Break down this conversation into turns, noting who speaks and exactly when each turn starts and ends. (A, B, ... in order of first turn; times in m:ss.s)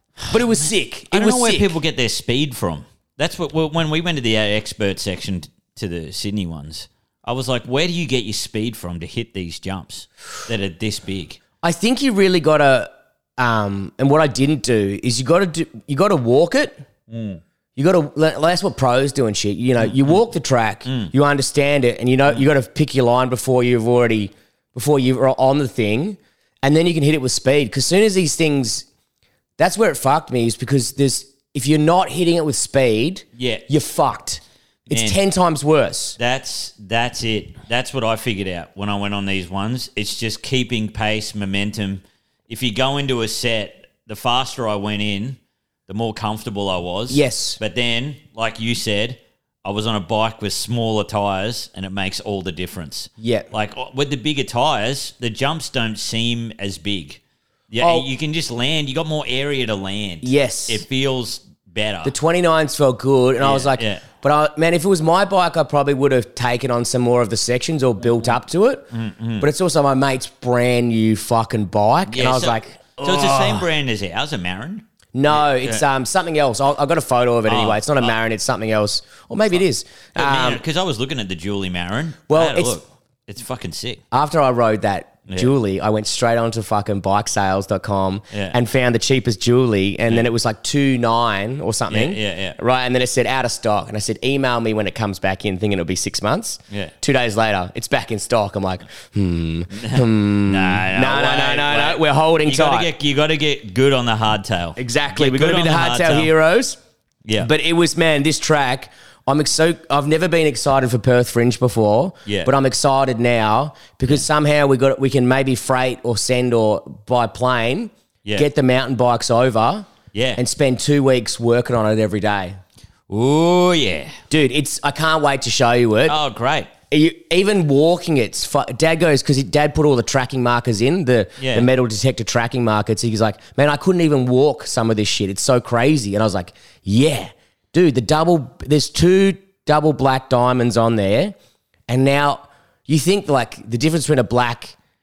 0:00.3-0:01.8 A
0:01.1-0:11.4 B
0:11.6-0:16.8 A
0:17.1-0:17.4 B
0:17.8-0:28.9 A
0:19.8-0:20.2 B
0:20.9-0:21.1 B
0:29.6-0:36.2 A
0:33.4-0:33.7 B
0:34.9-0:35.2 B
0:36.2-1:02.1 B
0:47.1-0:47.6 A
0:53.2-0:53.5 A
0:57.8-0:58.1 A
1:00.2-1:00.8 A
1:02.0-1:08.9 A
1:03.4-1:04.0 B
1:08.9-1:09.5 B
1:09.4-1:13.7 A
1:12.1-1:15.8 B
1:15.2-1:20.6 A
1:17.5-1:18.1 B
1:20.2-1:24.0 B
1:22.3-1:22.8 A
1:24.1-1:42.9 A
1:25.3-1:25.5 B
1:31.9-1:32.6 B
1:39.7-1:46.3 B
1:44.8-1:46.8 A
1:47.2-1:47.5 B
1:47.4-2:02.6 A
2:00.1-2:00.4 B
2:03.1-2:04.2 B
2:04.3-2:06.2 A
2:06.1-2:06.7 B
2:06.9-2:21.4 A
2:11.4-2:11.7 B
2:21.9-2:24.8 A